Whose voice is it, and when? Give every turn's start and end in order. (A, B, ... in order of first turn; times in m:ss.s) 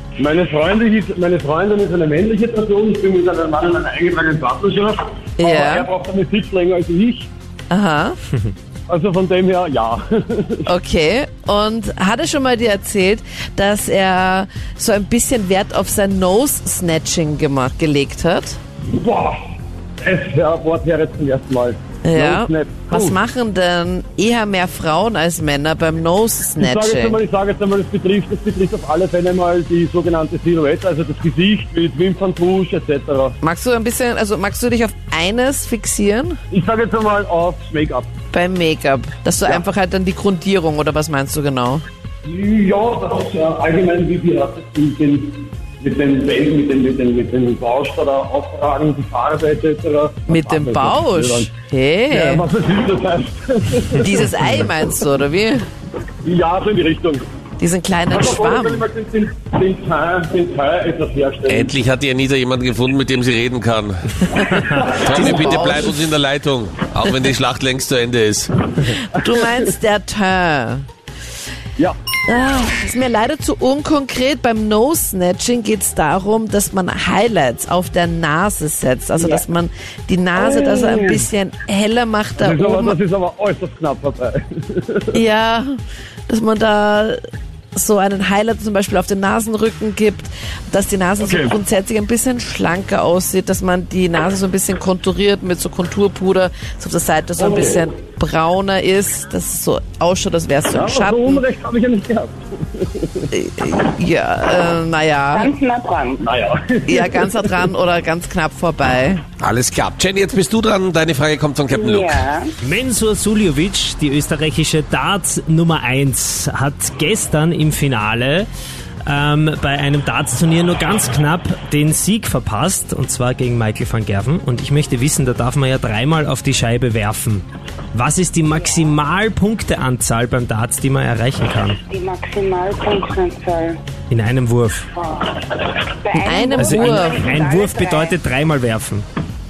0:00.2-0:07.3 A
0:05.4-0:05.9 B
0:07.7-0:08.2 B
0:08.9-0:10.7 A
0:10.7-0:18.6 B
0:18.9-0:19.4 A
0:20.0-0:23.2 A
0:22.0-0:27.2 B
0:26.6-0:33.4 A
0:33.4-0:36.4 B
0:36.5-0:38.1 A
0:38.3-0:41.8 B
0:42.2-0:51.5 A
0:50.3-0:52.5 B
0:52.1-0:54.3 A
0:54.0-0:55.6 B
0:56.2-0:57.3 A
0:57.6-0:58.8 B
0:58.1-1:01.7 A
1:01.5-1:04.2 C
1:04.4-1:06.1 B
1:04.5-1:05.8 A
1:05.0-1:08.5 C
1:08.9-1:10.9 B
1:12.3-1:23.0 B
1:20.4-1:21.2 A
1:22.4-1:25.2 A
1:25.1-1:27.2 B
1:27.8-1:41.4 B
1:31.2-1:31.6 A
1:37.4-1:37.9 A
1:40.7-1:43.3 A
1:43.3-1:45.5 B
1:45.3-1:46.2 D
1:46.2-1:47.7 A
1:46.9-1:49.2 B
1:49.4-1:52.2 C
1:51.7-1:52.5 D
1:52.6-1:58.5 E
1:59.1-2:11.8 E
2:11.9-2:13.8 D
2:14.1-2:14.9 E
2:15.0-2:18.2 D
2:16.2-2:17.3 B
2:16.6-2:19.1 E